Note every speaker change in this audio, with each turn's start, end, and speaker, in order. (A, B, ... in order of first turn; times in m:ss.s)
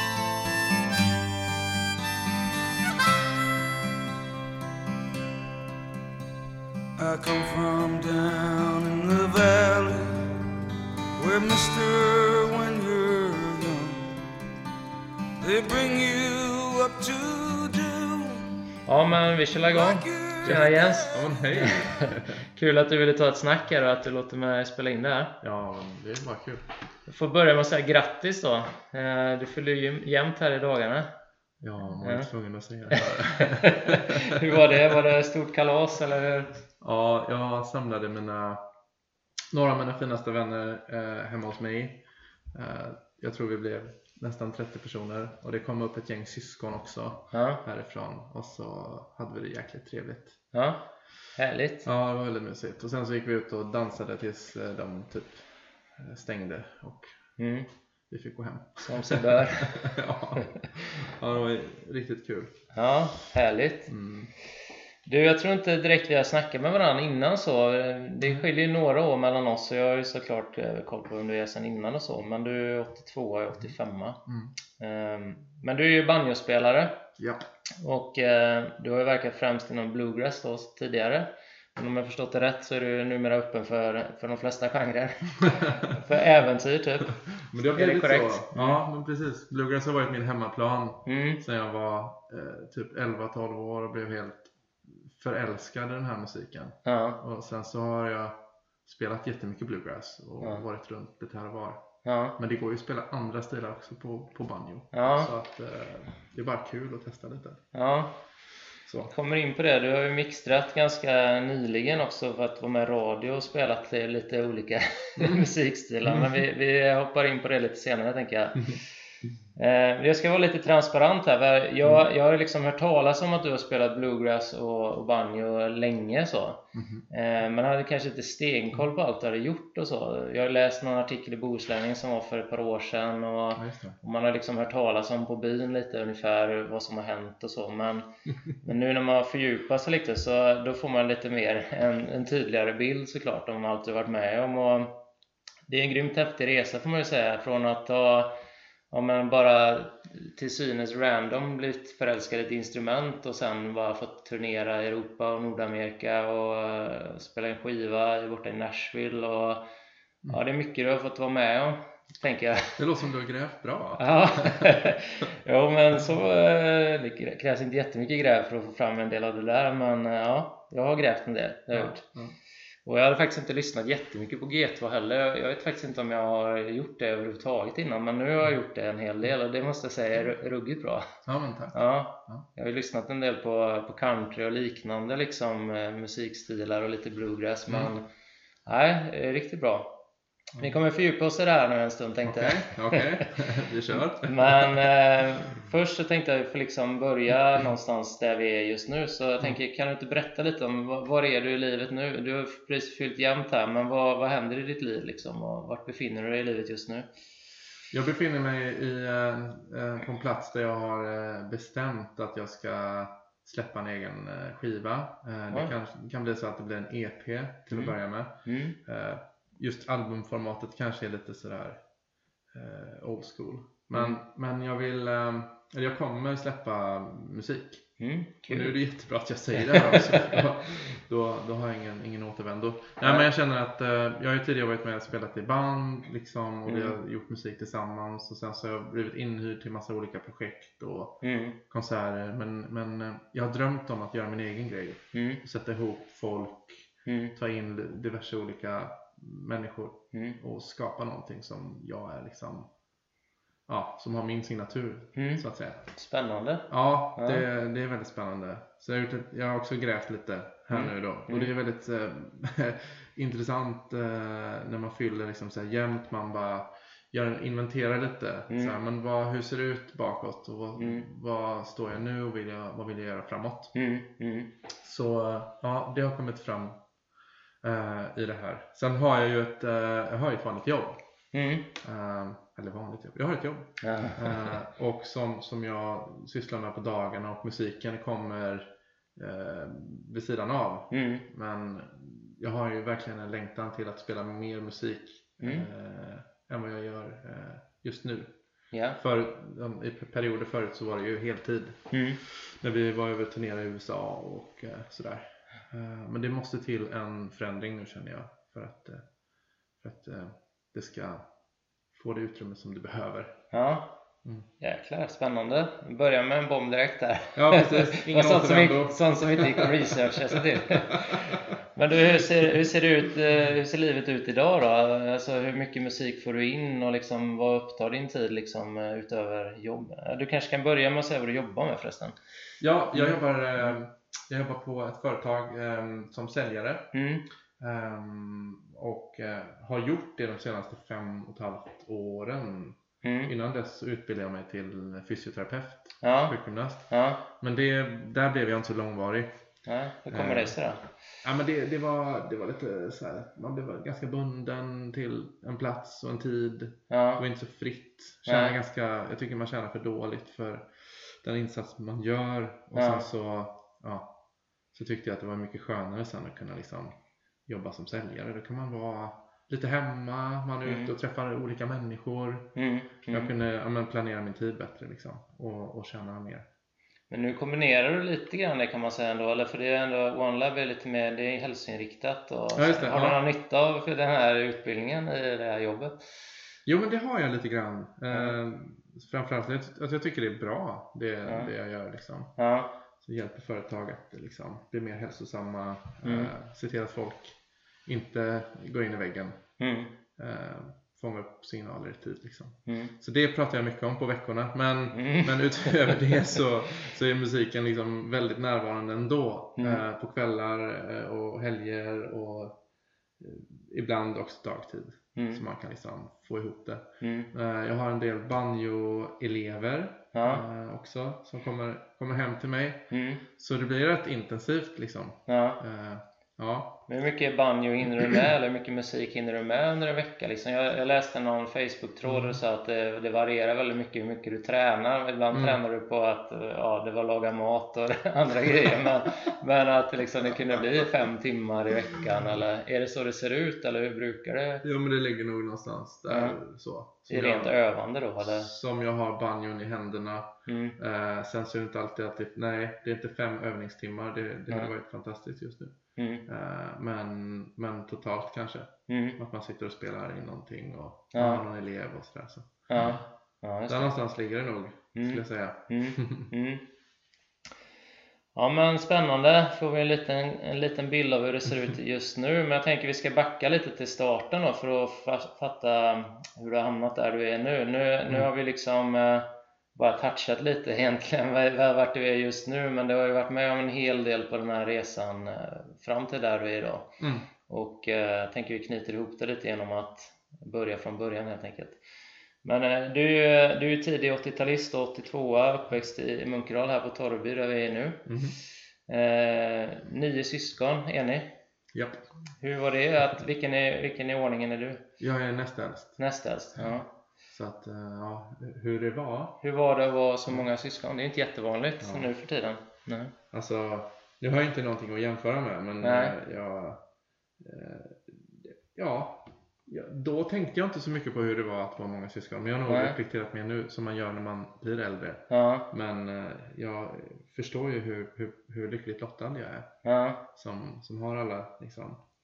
0:07.0-0:10.3 A
0:11.2-0:14.1 A
0:15.4-0:18.6 A
0:18.8-0:25.3 B
0:19.7-0:21.2 A
0:20.4-0:22.4 C
0:25.4-0:26.6 C
0:27.0-0:31.1 B
0:31.6-0:35.0 C
0:32.0-0:32.3 B
0:32.9-0:36.6 B
0:36.8-0:38.6 C
0:39.5-0:50.4 C
0:47.3-0:47.6 B
0:50.5-0:50.8 B
0:51.4-0:51.8 B
0:51.8-0:57.2 C
0:57.4-0:57.7 B
0:58.1-1:02.6 C
0:58.8-1:00.6 B
1:02.7-1:03.9 B
1:03.9-1:04.3 C
1:05.0-1:14.2 B
1:14.8-1:17.0 B
1:17.2-1:17.4 C
1:17.8-1:28.8 B
1:25.4-1:25.8 C
1:27.4-1:41.8 C
1:31.0-1:31.4 B
1:36.8-1:37.2 B
1:42.0-1:42.4 B
1:42.4-1:47.6 C
1:44.9-1:45.3 B
1:47.7-1:48.1 B
1:48.8-1:49.1 C
1:49.0-1:58.8 B
1:55.2-1:55.4 C
1:56.0-1:56.4 C
1:59.6-2:18.1 B
2:06.7-2:07.0 C
2:13.6-2:14.0 C
2:18.6-2:24.9 B
2:25.7-2:28.3 B
2:28.9-2:39.6 B
2:40.3-2:42.8 B
2:42.8-2:44.8 C
2:44.0-2:52.0 B
2:51.7-2:52.3 C
2:52.8-3:01.1 B
3:01.2-3:02.4 C
3:01.7-3:08.0 B
3:07.7-3:07.9 C
3:08.6-3:09.9 B
3:10.6-3:13.2 B
3:12.2-3:14.9 C
3:13.9-3:27.1 B
3:27.9-3:41.8 C
3:37.7-3:38.8 B
3:42.5-3:47.8 C
3:43.9-3:44.2 B
3:48.0-3:48.8 B
3:48.4-4:12.7 C
3:49.6-3:50.4 B
3:53.0-3:53.3 B
3:56.6-3:57.0 B
4:01.2-4:01.6 B
4:05.1-4:05.4 B
4:07.0-4:07.3 B
4:10.1-4:10.4 B
4:13.7-4:15.8 C
4:15.2-4:17.4 B
4:16.7-4:33.7 C
4:20.7-4:21.5 B
4:28.5-4:28.7 B
4:30.8-4:31.0 B
4:33.7-4:34.5 B
4:34.8-4:36.8 C
4:37.6-4:41.0 C
4:41.3-4:41.7 B
4:41.8-4:58.3 C
4:43.8-4:44.5 B
4:50.9-4:51.2 B
4:55.4-4:55.7 B
4:58.7-4:59.0 B
4:59.0-5:09.0 C
5:01.9-5:02.2 B
5:09.8-5:11.2 C
5:11.9-5:13.4 C
5:13.5-5:13.9 B
5:14.6-5:32.2 B
5:17.3-5:21.4 C
5:32.6-5:36.9 C
5:32.9-5:33.7 B
5:36.9-5:37.2 B
5:37.6-5:49.3 C
5:43.0-5:43.3 B
5:46.0-5:46.4 B
5:46.9-5:47.2 B
5:49.6-5:50.9 B
5:50.1-5:50.5 C
5:51.2-6:04.1 C
5:56.9-5:57.2 B
5:58.3-5:58.6 B
6:02.8-6:03.0 B
6:04.7-6:06.9 C
6:07.5-6:12.5 C
6:10.6-6:10.9 B
6:12.6-6:13.3 B
6:13.1-6:16.5 C
6:17.1-6:26.0 B
6:22.6-6:23.2 C
6:26.6-6:32.3 C
6:31.2-6:31.5 B
6:32.4-6:32.7 B
6:33.0-6:39.4 C
6:36.0-6:36.3 B
6:39.6-6:39.9 B
6:40.2-6:52.6 C
6:42.7-6:42.9 B
6:44.9-6:46.2 B
6:49.6-6:49.8 B
6:53.2-7:06.8 C
6:55.2-6:55.4 B
6:57.0-6:57.3 B
7:00.1-7:00.4 B
7:02.9-7:03.2 B
7:05.3-7:05.6 B
7:06.9-7:24.6 B
7:12.0-7:12.4 C
7:15.3-7:15.6 C
7:24.6-7:27.6 C
7:26.1-7:26.4 B
7:27.1-7:28.5 B
7:28.2-7:35.7 C
7:30.5-7:30.8 B
7:36.0-7:36.2 B
7:36.3-7:43.0 C
7:38.9-7:39.2 B
7:41.1-7:41.4 B
7:42.7-7:43.9 B
7:43.7-7:46.3 C
7:44.9-7:46.6 B
7:48.3-8:06.9 B
8:07.0-8:07.3 C
8:07.5-8:11.8 B
8:12.4-8:18.1 B
8:18.0-8:18.4 C
8:18.9-8:21.3 B
8:21.7-8:22.0 C
8:22.4-8:24.8 B
8:25.0-8:26.0 C
8:26.0-8:26.9 B
8:27.3-8:29.4 C
8:29.4-8:33.1 B
8:31.8-8:32.1 C
8:33.3-8:36.8 C
8:35.8-8:36.1 B
8:37.4-8:49.7 C
8:42.6-8:43.0 B
8:45.3-8:45.6 B
8:49.8-8:50.2 B
8:50.3-8:52.0 C